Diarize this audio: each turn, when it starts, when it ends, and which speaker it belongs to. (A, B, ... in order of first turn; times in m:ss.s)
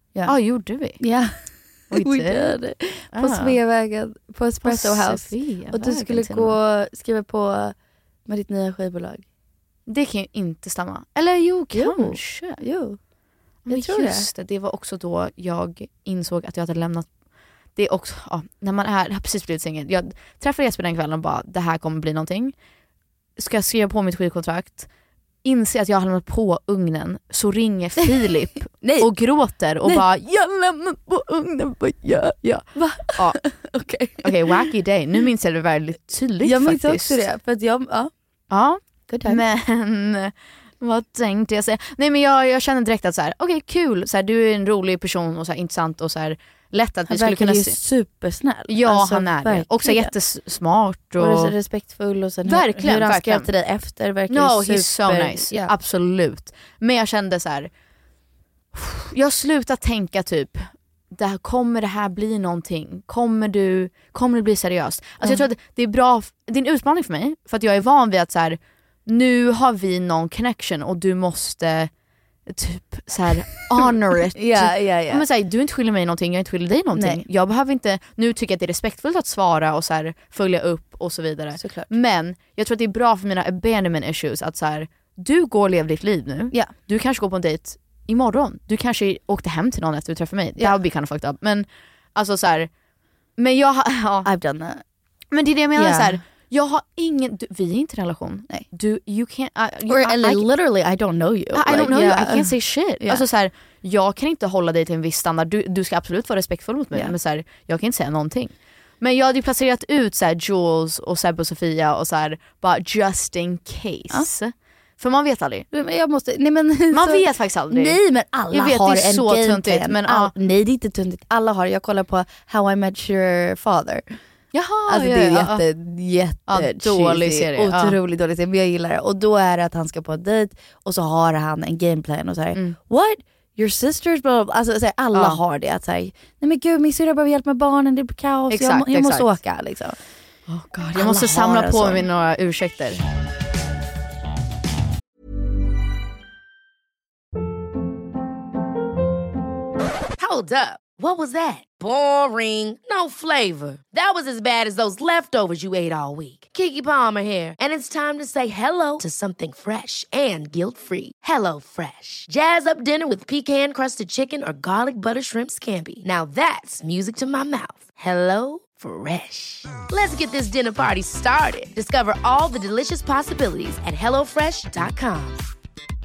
0:00.3-0:01.0 A
0:01.0-0:07.8 B
0:01.9-0:02.6 A
0:03.1-0:03.6 A
0:04.6-0:06.6 A
0:08.3-0:09.2 B
0:09.9-0:12.6 A
0:11.7-0:13.0 B
0:13.6-0:17.1 A
0:13.7-0:14.3 B
0:17.8-0:22.5 A
0:23.4-0:24.9 A
0:25.4-0:33.4 A
0:28.8-0:29.2 B
0:32.8-0:34.7 B
0:34.2-0:37.2 A
0:36.4-0:38.1 B
0:38.5-0:47.8 A
0:39.1-0:39.4 B
0:47.1-0:50.1 B
0:48.7-0:51.6 A
0:51.2-0:55.7 B
0:52.4-0:53.5 A
0:54.3-0:57.7 A
0:58.7-1:11.9 A
1:12.5-1:32.7 A
1:14.4-1:15.3 B
1:16.9-1:17.2 B
1:21.6-1:21.9 B
1:33.4-1:34.3 A
1:34.2-1:34.8 B
1:35.3-1:40.5 A
1:35.8-1:36.2 B
1:39.9-1:43.2 B
1:41.5-1:55.6 A
1:55.7-2:04.2 B
1:56.9-1:58.0 A
1:58.5-2:00.3 A
2:04.5-2:05.6 A
2:04.9-2:20.0 B
2:06.5-2:08.0 A
2:15.1-2:15.4 A
2:18.5-2:19.3 A
2:20.5-2:23.0 A
2:20.9-2:22.1 B
2:30.2-2:55.4 C